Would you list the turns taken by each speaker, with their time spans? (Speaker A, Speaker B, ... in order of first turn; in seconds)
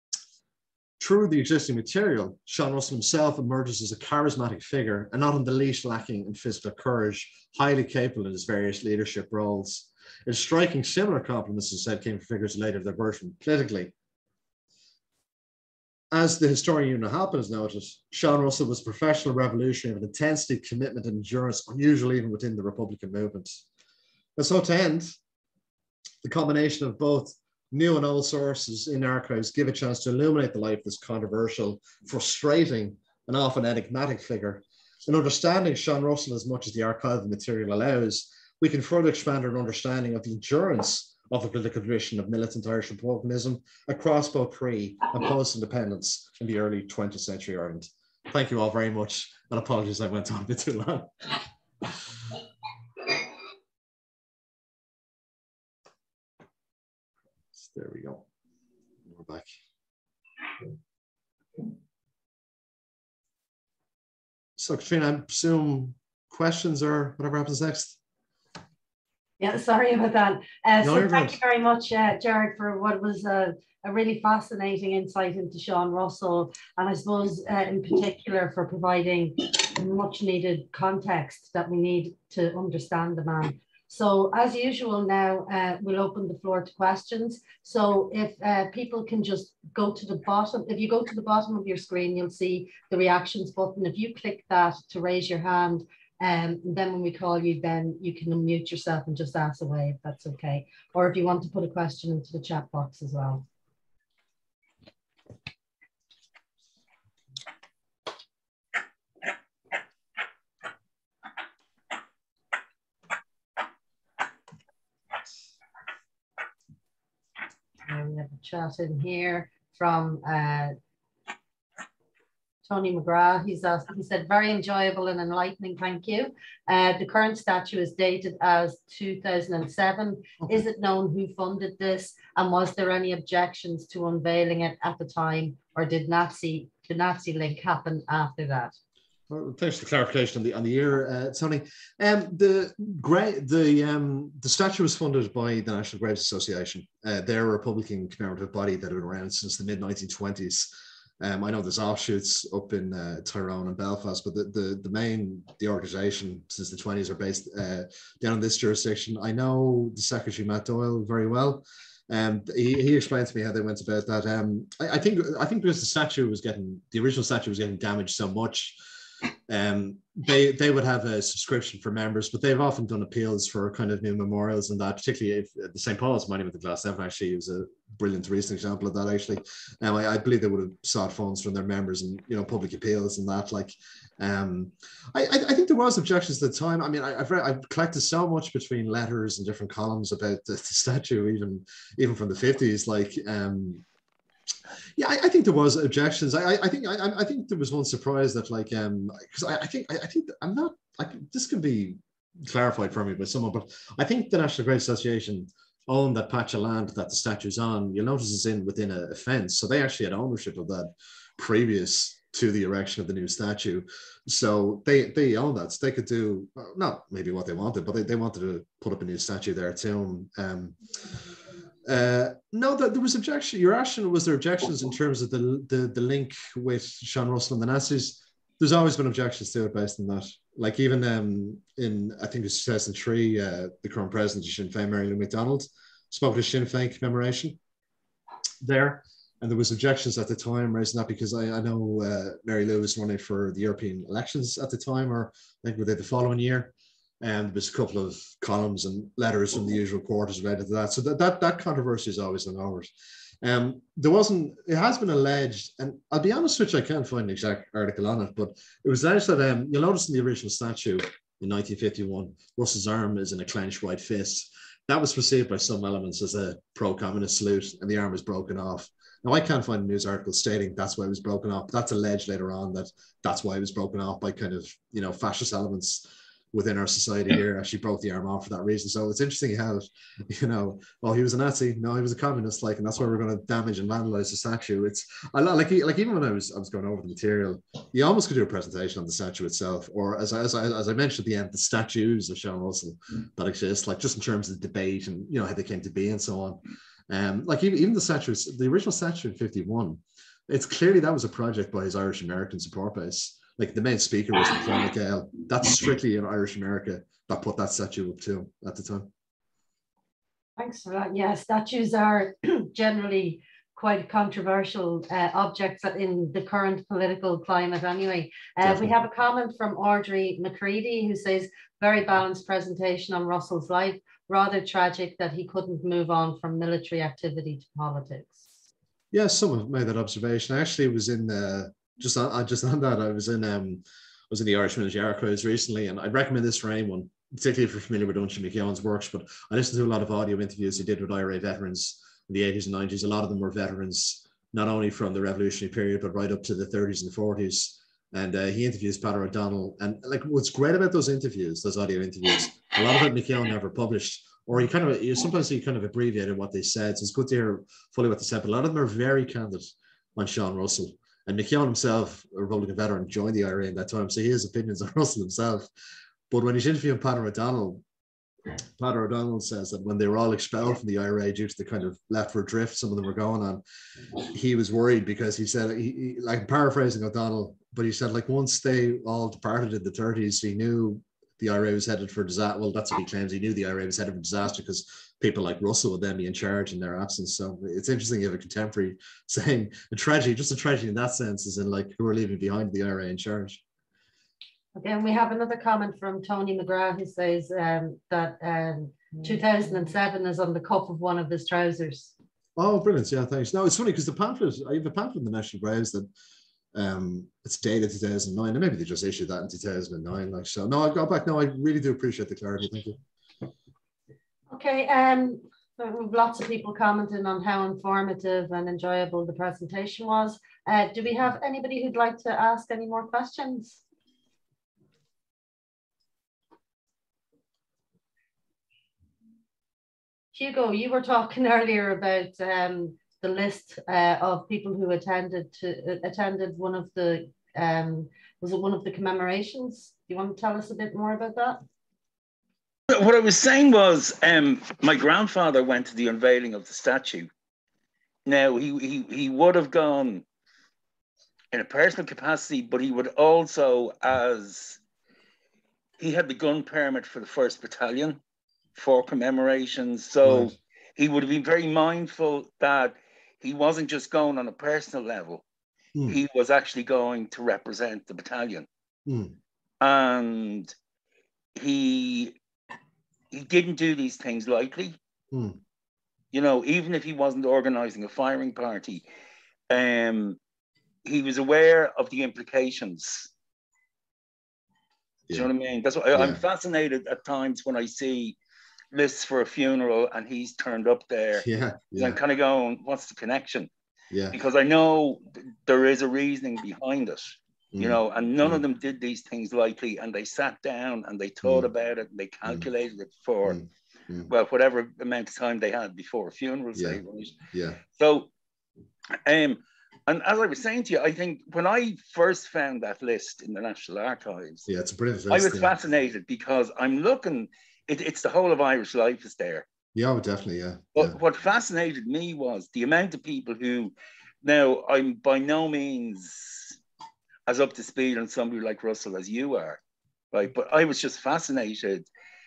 Speaker A: 1.0-13.9, 16.1-23.6, 24.4-25.1, 26.2-52.0, 57.5-58.2, 59.1-59.5, 64.6-68.0, 70.8-71.4, 139.3-150.7, 151.2-168.8, 169.5-193.8, 195.0-221.2, 221.8-237.6, 238.6-252.9, 253.4-309.1, 318.6-318.9, 329.1-365.7, 366.3-367.8, 368.8-373.6, 374.2-393.6, 402.6-406.1, 406.7-413.0, 460.2-460.6, 469.1-469.4, 475.3-475.6, 486.1-486.4, 491.4-492.2, 494.1-494.4, 497.7-498.6, 501.4-501.7, 503.4-504.3, 506.7-507.8, 514.7-515.7, 519.9-521.1
Speaker B: 69.4-103.5, 117.8-120.7, 122.6-138.8, 310.6-328.4, 394.7-402.1, 414.5-423.8, 430.3-441.6
Speaker C: 442.9-447.3, 448.2-450.2, 451.5-454.8, 456.0-458.2, 458.7-465.4, 466.1-468.7, 469.8-470.7, 471.6-472.3, 473.3-474.9, 476.3-479.0, 479.7-480.4, 481.0-483.3, 485.3-488.4, 488.9-493.7, 494.3-503.6, 504.3-507.4, 507.9-508.3, 509.1-514.7, 515.3-519.6, 521.0-526.8, 527.5-529.8, 530.3-532.0